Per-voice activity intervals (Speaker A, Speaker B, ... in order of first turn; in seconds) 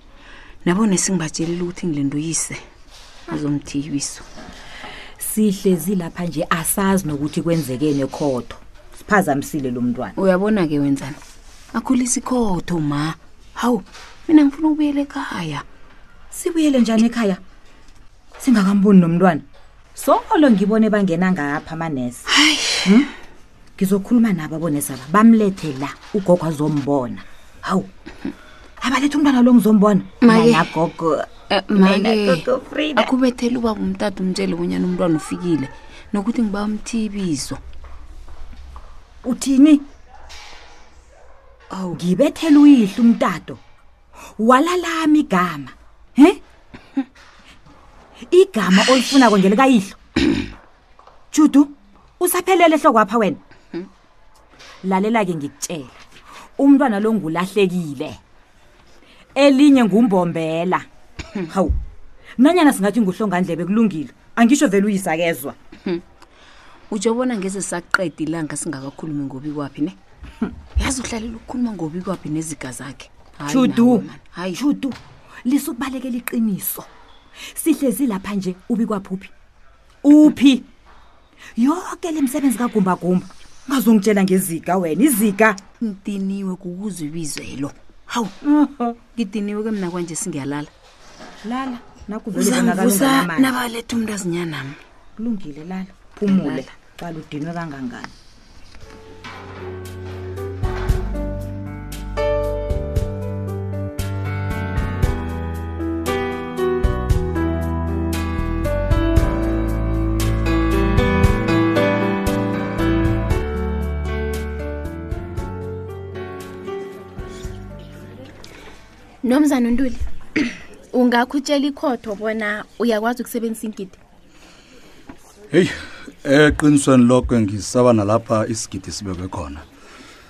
Speaker A: 0.6-2.6, 3.3-4.2, 10.2-11.2, 11.7-15.6, 22.3-22.9, 30.2-30.7, 31.5-37.6, 66.9-70.0, 70.8-74.6, 85.8-88.3, 89.1-90.7, 92.3-94.8, 96.3-96.7, 119.3-120.0, 120.9-124.0
Speaker B: 5.2-10.2, 16.3-17.4, 18.4-22.2, 22.8-23.1, 23.8-27.9, 28.8-33.1, 39.2-39.8, 41.9-43.6, 44.4-46.4, 48.3-50.0, 51.3-53.4, 54.8-56.0, 56.6-58.2, 59.3-60.9, 61.5-61.8, 62.4-65.5, 73.5-76.9, 77.5-79.3, 80.0-80.7, 81.6-85.6, 88.4-89.0, 91.4-93.5, 95.2-98.1
Speaker C: 125.5-129.6